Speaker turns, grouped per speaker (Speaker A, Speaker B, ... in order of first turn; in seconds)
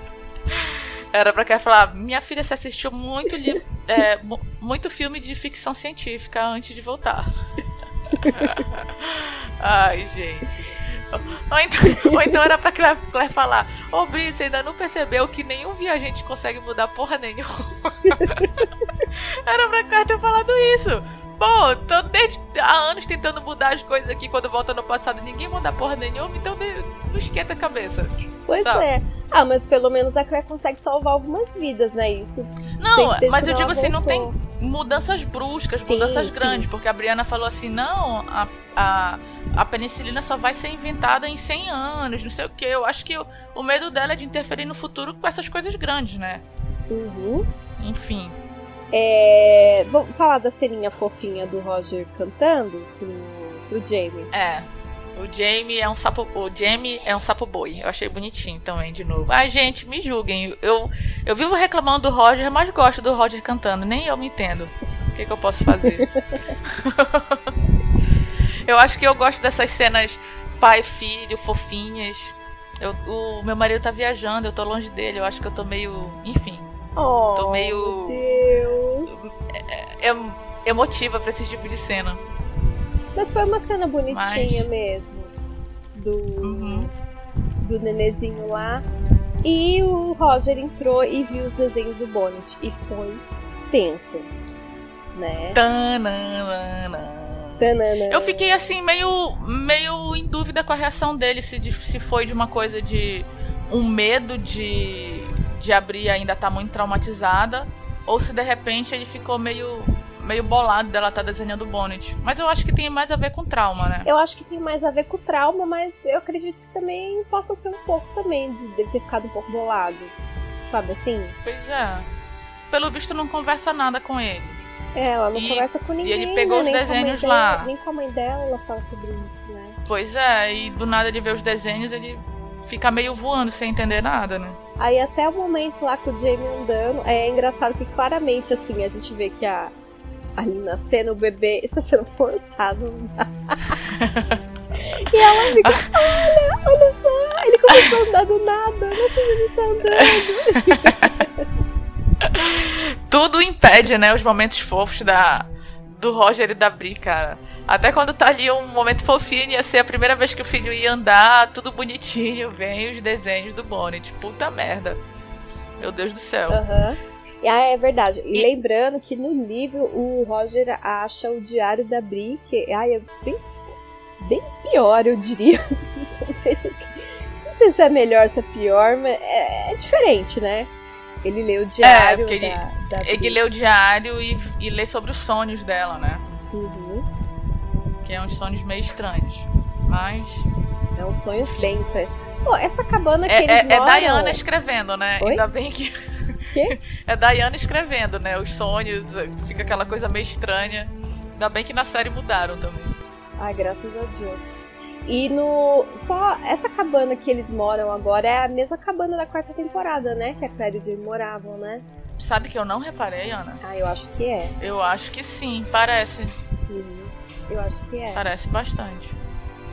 Speaker A: 0.5-7.5, 8.2-28.9, 32.8-46.4, 47.8-48.4, 54.3-66.1, 66.7-67.5, 68.7-76.7, 77.3-78.2, 79.1-82.2, 84.1-84.7, 86.4-86.9, 95.5-114.1, 121.4-122.1, 122.7-124.6, 125.3-127.7, 129.9-134.6, 143.9-144.4, 145.6-145.9, 152.2-165.0, 165.8-166.6, 181.8-186.2, 188.0-190.4, 191.4-191.8, 193.3-202.9, 212.2-213.6, 214.6-216.3, 218.1-219.2
Speaker B: 28.5-34.3, 35.7-36.7, 46.9-47.5, 48.9-54.3, 77.0-79.2, 83.1-85.3, 85.9-86.9, 87.6-88.8, 89.4-94.3, 95.1-95.6, 97.6-98.5, 114.0-120.1, 120.7-121.3, 125.0-129.8, 134.8-139.7, 140.4-143.8, 144.8-151.4, 166.5-173.5, 174.2-180.7, 181.2-183.4, 186.5-187.1, 190.9-194.4, 203.4-211.8, 213.6-214.5, 216.7-218.2